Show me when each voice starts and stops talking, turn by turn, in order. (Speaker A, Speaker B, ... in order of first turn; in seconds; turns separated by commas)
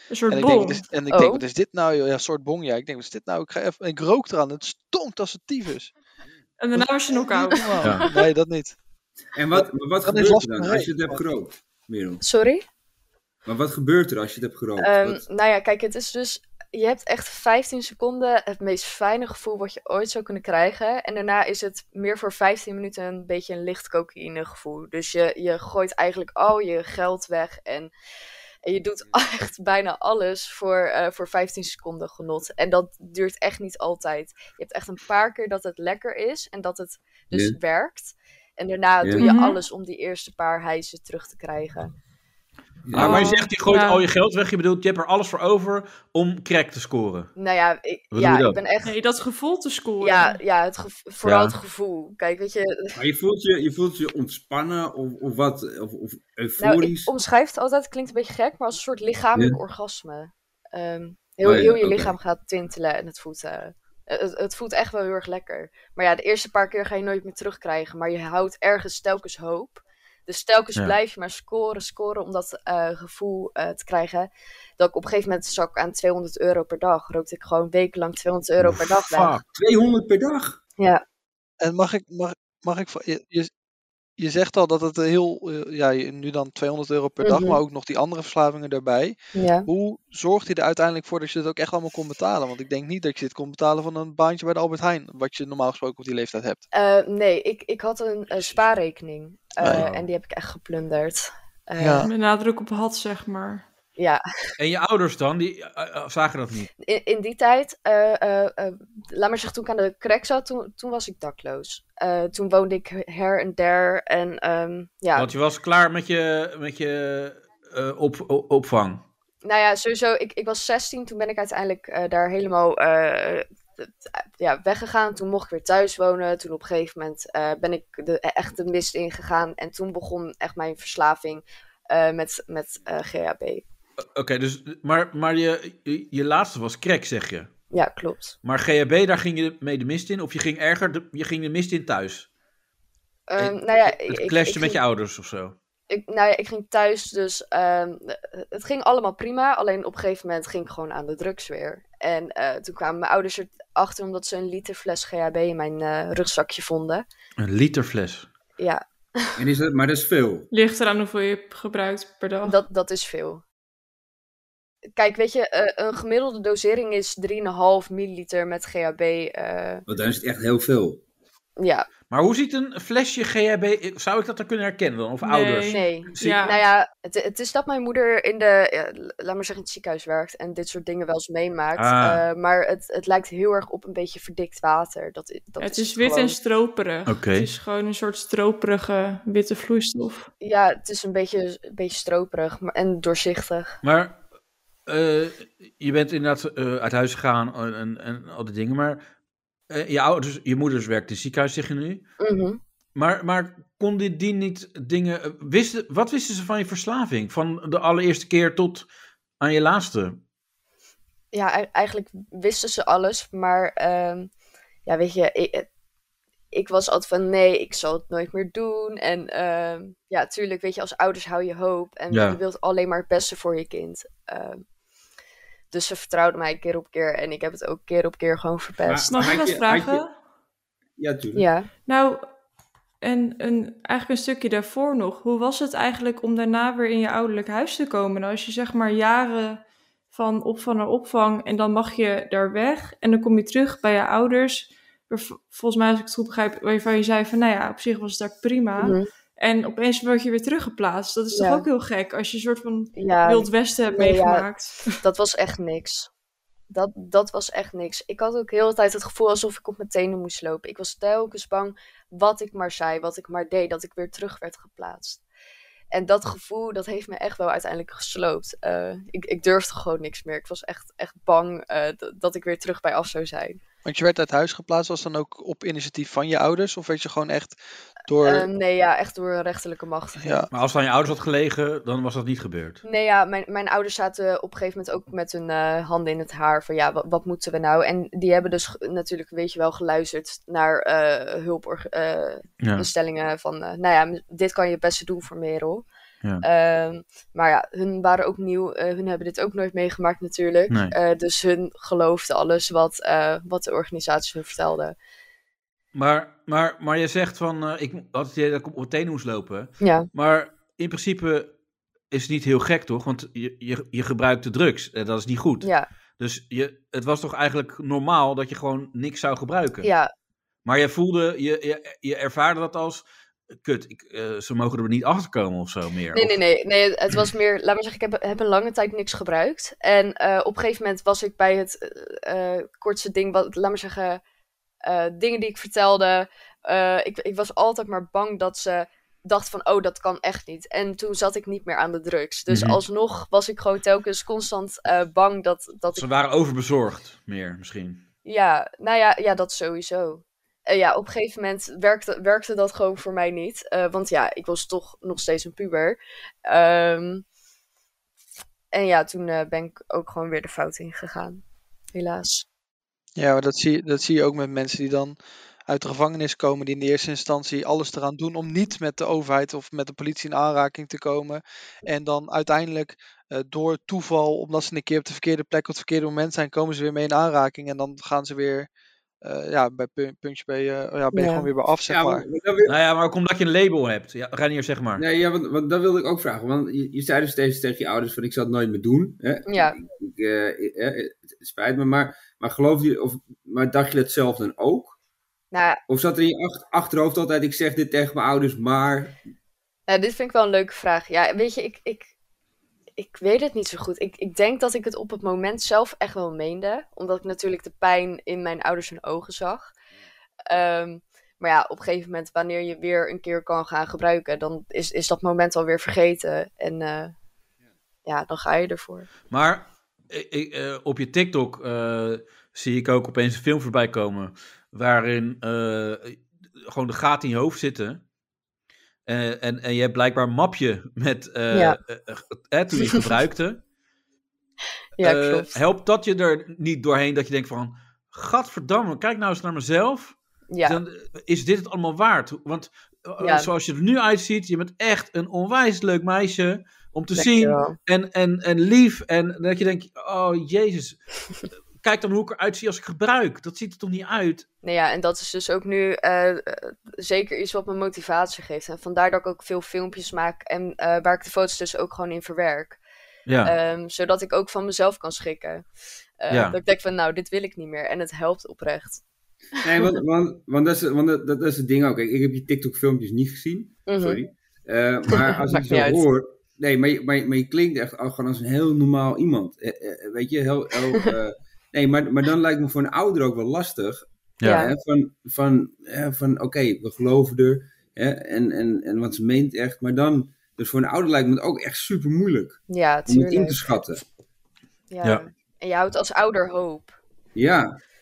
Speaker A: 0.1-0.8, Speaker B: 0.3-5.9, Speaker C: 1.1-1.4, Speaker A: 6.6-8.0, Speaker B: 6.7-8.8, Speaker D: 9.3-12.2, Speaker B: 9.5-11.2, Speaker C: 12.2-12.6, Speaker D: 13.4-15.2, Speaker C: 14.8-27.9, Speaker C: 28.6-41.9, Speaker A: 39.2-39.6, Speaker D: 42.9-43.4, Speaker E: 42.9-47.3, Speaker A: 43.0-44.0, Speaker C: 47.4-48.9, Speaker E: 48.1-48.6, Speaker A: 48.8-50.4, Speaker C: 50.0-53.0, Speaker E: 51.2-51.5, Speaker D: 52.9-57.1, Speaker C: 56.6-79.4, Speaker D: 61.4-62.1, Speaker E: 78.6-79.5, Speaker D: 79.5-80.6, Speaker C: 80.8-81.0, Speaker B: 81.6-83.5, Speaker B: 84.2-96.6, Speaker C: 87.2-87.6, Speaker C: 89.3-89.7, Speaker C: 96.7-102.1, Speaker E: 99.7-100.0, Speaker B: 101.8-102.1, Speaker A: 102.0-103.6, Speaker C: 104.0-104.5, Speaker E: 104.6-106.7, Speaker C: 106.8-115.3, Speaker E: 115.2-119.0, Speaker C: 119.4-133.6, Speaker E: 134.1-137.5, Speaker C: 137.7-138.3, Speaker E: 138.4-142.3, Speaker C: 143.3-144.8, Speaker E: 143.4-145.5, Speaker C: 145.9-157.0, Speaker E: 157.4-158.3, Speaker C: 158.6-159.4, Speaker D: 159.3-160.5, Speaker A: 160.5-162.6, Speaker C: 162.4-163.4, Speaker C: 164.9-169.8, Speaker D: 169.9-171.0, Speaker C: 171.6-171.8, Speaker E: 172.1-176.5, Speaker A: 175.2-176.6, Speaker C: 175.7-186.3, Speaker E: 181.8-182.2, Speaker A: 185.6-190.3, Speaker E: 187.1-187.5, Speaker C: 190.4-193.8, Speaker E: 193.8-194.2, Speaker E: 194.9-199.0, Speaker E: 199.7-202.0, Speaker C: 202.2-202.6, Speaker E: 202.9-208.9, Speaker E: 209.4-210.2, Speaker C: 211.3-214.3, Speaker C: 214.8-215.7, Speaker C: 216.5-224.6, Speaker E: 222.1-222.4, Speaker C: 225.7-229.4, Speaker D: 228.8-230.0, Speaker A: 229.1-230.1, Speaker D: 231.0-231.4, Speaker C: 231.3-231.7, Speaker A: 231.9-232.3, Speaker A: 233.0-255.0, Speaker C: 248.8-249.1, Speaker C: 251.3-251.7, Speaker C: 252.9-256.1, Speaker C: 256.7-265.2, Speaker C: 265.9-273.6, Speaker B: 273.8-277.6, Speaker B: 278.1-278.5, Speaker C: 278.2-280.5, Speaker B: 280.2-280.5, Speaker E: 280.5-282.8, Speaker C: 282.8-295.8, Speaker E: 292.6-292.9, Speaker C: 296.4-304.9, Speaker E: 300.7-300.9, Speaker E: 305.9-311.5, Speaker C: 309.8-310.1, Speaker E: 312.1-319.9, Speaker C: 315.6-315.9, Speaker C: 319.8-320.1, Speaker E: 320.6-323.0, Speaker E: 323.6-326.4, Speaker C: 326.1-334.2, Speaker C: 334.8-346.1, Speaker E: 342.5-342.8, Speaker E: 345.9-348.0, Speaker C: 348.2-357.2, Speaker C: 358.7-361.4, Speaker C: 361.9-362.4, Speaker B: 363.1-378.7, Speaker B: 379.2-382.2, Speaker C: 381.1-381.5, Speaker D: 381.9-382.7, Speaker E: 382.6-385.0, Speaker D: 385.0-394.9, Speaker C: 389.5-389.8, Speaker C: 395.5-395.8, Speaker D: 395.9-399.1, Speaker C: 399.9-402.1, Speaker C: 403.0-409.7, Speaker C: 410.5-417.1, Speaker C: 418.0-419.1, Speaker E: 419.3-428.0, Speaker E: 429.1-433.6, Speaker C: 431.5-431.8, Speaker C: 432.8-433.0, Speaker C: 435.0-435.6, Speaker E: 435.0-451.0, Speaker C: 440.5-440.8, Speaker C: 443.2-443.5, Speaker C: 447.1-447.8, Speaker E: 451.8-454.4, Speaker C: 454.6-462.8, Speaker E: 463.2-463.5, Speaker C: 463.4-465.6, Speaker C: 466.2-469.0, Speaker E: 466.3-466.6, Speaker C: 469.6-469.9, Speaker D: 469.6-494.0, Speaker C: 473.9-474.2, Speaker C: 475.1-476.0, Speaker E: 484.4-484.7, Speaker C: 484.4-484.7, Speaker C: 492.7-493.6, Speaker C: 494.9-496.9, Speaker D: 497.3-497.8